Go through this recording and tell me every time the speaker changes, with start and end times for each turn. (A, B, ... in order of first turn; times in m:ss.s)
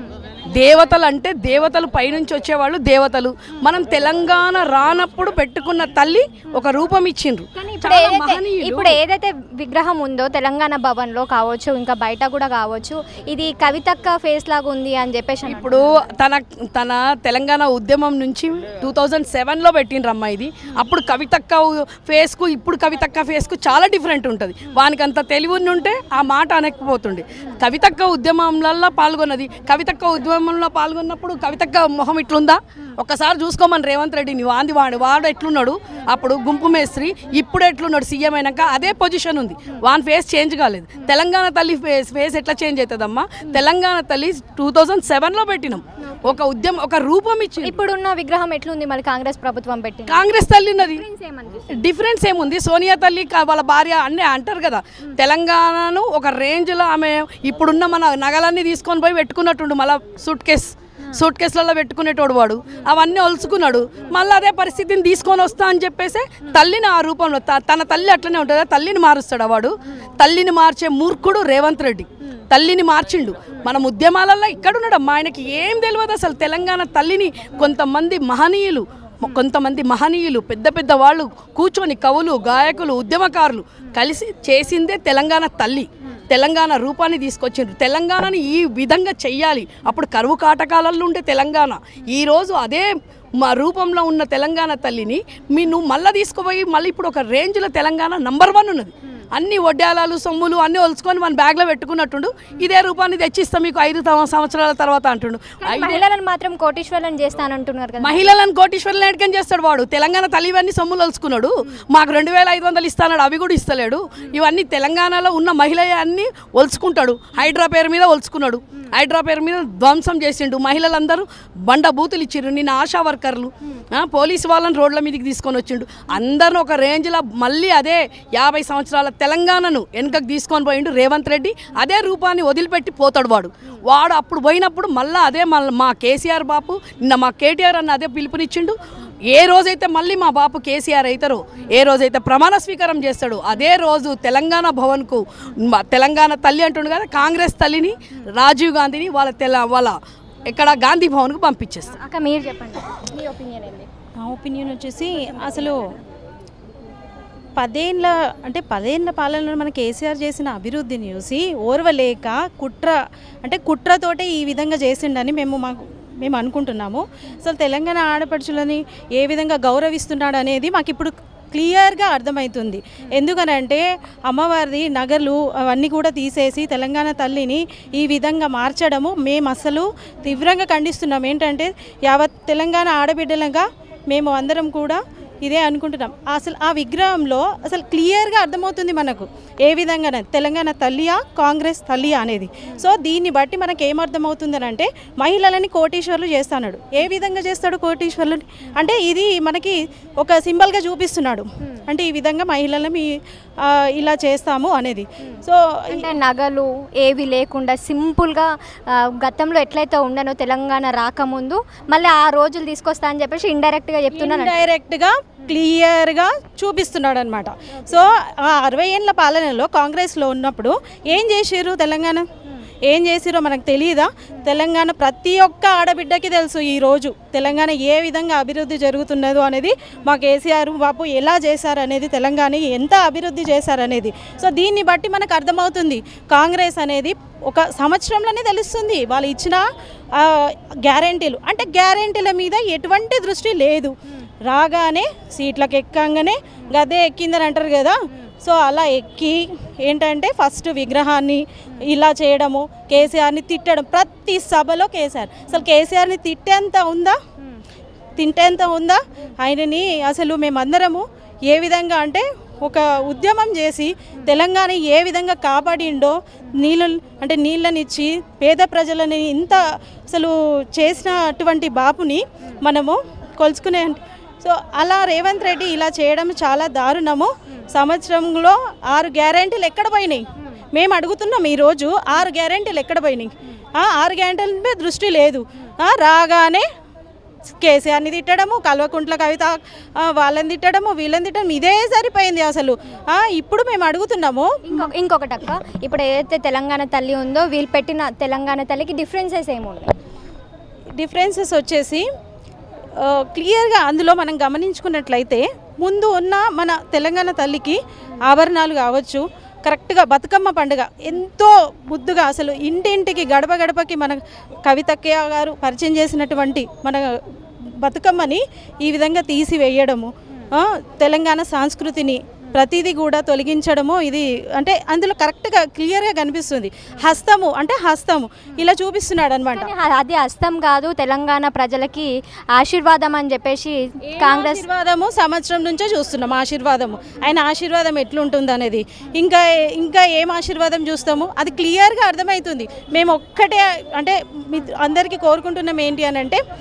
0:00.5-0:09.0 A
0:07.6-0:15.8 B
0:15.4-0:47.7 A
0:46.0-0:46.4 B
0:47.6-0:51.9 B
0:50.1-0:51.0 A
0:51.8-1:46.0 A
1:45.6-1:48.3 B
1:48.0-2:18.8 A
2:19.3-2:30.0 A
2:30.5-2:31.9 A
2:31.9-2:33.9 B
2:34.2-2:35.8 C
2:37.6-3:26.1 C
3:25.9-3:34.6 B
3:34.1-3:42.2 C
3:42.9-3:59.6 C
4:00.1-4:03.9 C
4:04.4-4:17.2 C
4:18.2-4:46.6 C
4:47.5-4:54.8 C
4:54.6-4:59.9 B
5:01.0-5:02.0 C
5:03.0-5:17.2 C
5:17.8-5:29.7 C
5:29.5-5:34.6 B
5:34.1-5:46.4 C